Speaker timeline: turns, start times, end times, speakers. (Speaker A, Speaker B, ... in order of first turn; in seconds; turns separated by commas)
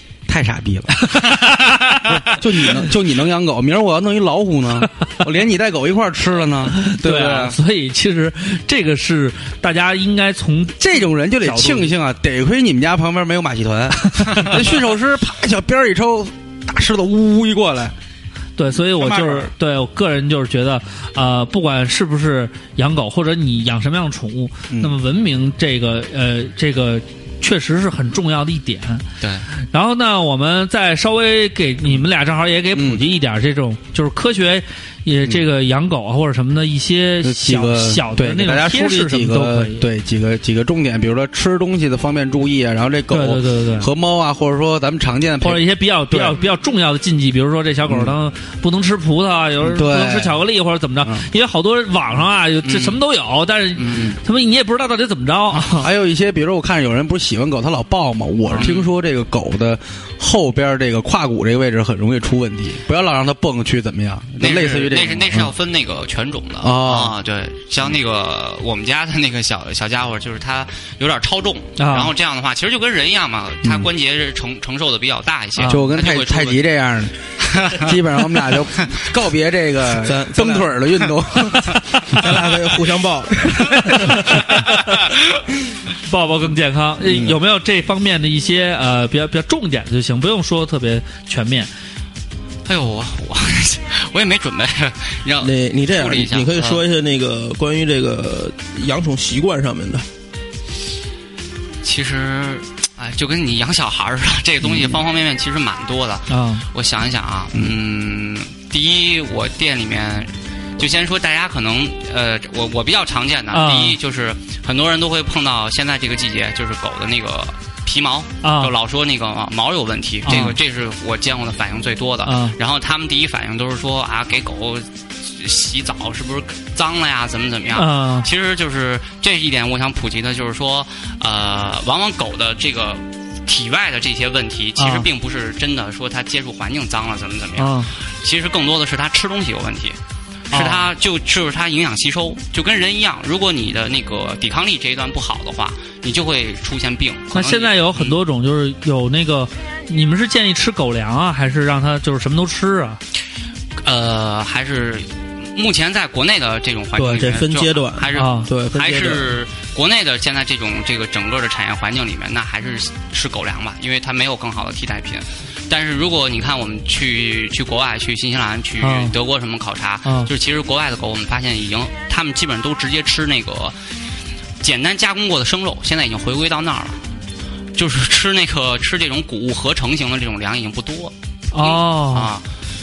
Speaker A: 0.3-1.1, Speaker B: 1.1-2.4, Speaker A: 2.1-7.6, Speaker B: 6.7-10.8, Speaker A: 10.8-17.9, Speaker B: 11.4-11.9, Speaker B: 14.1-14.5, Speaker B: 18.6-29.1, Speaker A: 19.0-19.5, Speaker C: 29.2-29.5, Speaker B: 29.7-39.9, Speaker A: 32.7-33.0, Speaker A: 37.2-46.4, Speaker B: 43.1-43.9, Speaker B: 45.4-55.9, Speaker A: 47.9-48.1, Speaker A: 49.6-50.4, Speaker C: 52.6-53.0, Speaker C: 53.8-54.2, Speaker A: 55.6-65.5, Speaker C: 58.5-58.9, Speaker C: 64.4-76.6, Speaker A: 66.6-67.2, Speaker B: 71.8-72.1, Speaker A: 73.6-73.9, Speaker A: 75.7-77.2, Speaker C: 77.4-79.0, Speaker A: 77.7-82.5, Speaker D: 79.9-80.8, Speaker D: 82.1-84.2, Speaker B: 83.7-84.9, Speaker B: 86.1-91.7, Speaker A: 87.0-87.4, Speaker C: 92.7-96.8, Speaker D: 95.4-100.1, Speaker C: 101.8-140.0, Speaker B: 106.3-106.7, Speaker B: 113.5-114.0, Speaker B: 118.4-118.8, Speaker B: 120.2-120.6, Speaker B: 122.2-122.6, Speaker B: 127.7-128.3, Speaker B: 134.8-135.1, Speaker B: 137.6-137.9, Speaker B: 140.5-140.9, Speaker C: 140.5-148.2, Speaker B: 147.3-153.0, Speaker C: 153.8-173.8, Speaker D: 156.9-159.3, Speaker B: 158.1-158.5, Speaker B: 168.8-169.1, Speaker B: 170.1-170.3, Speaker C: 174.6-177.1, Speaker C: 177.8-182.4, Speaker B: 181.5-182.3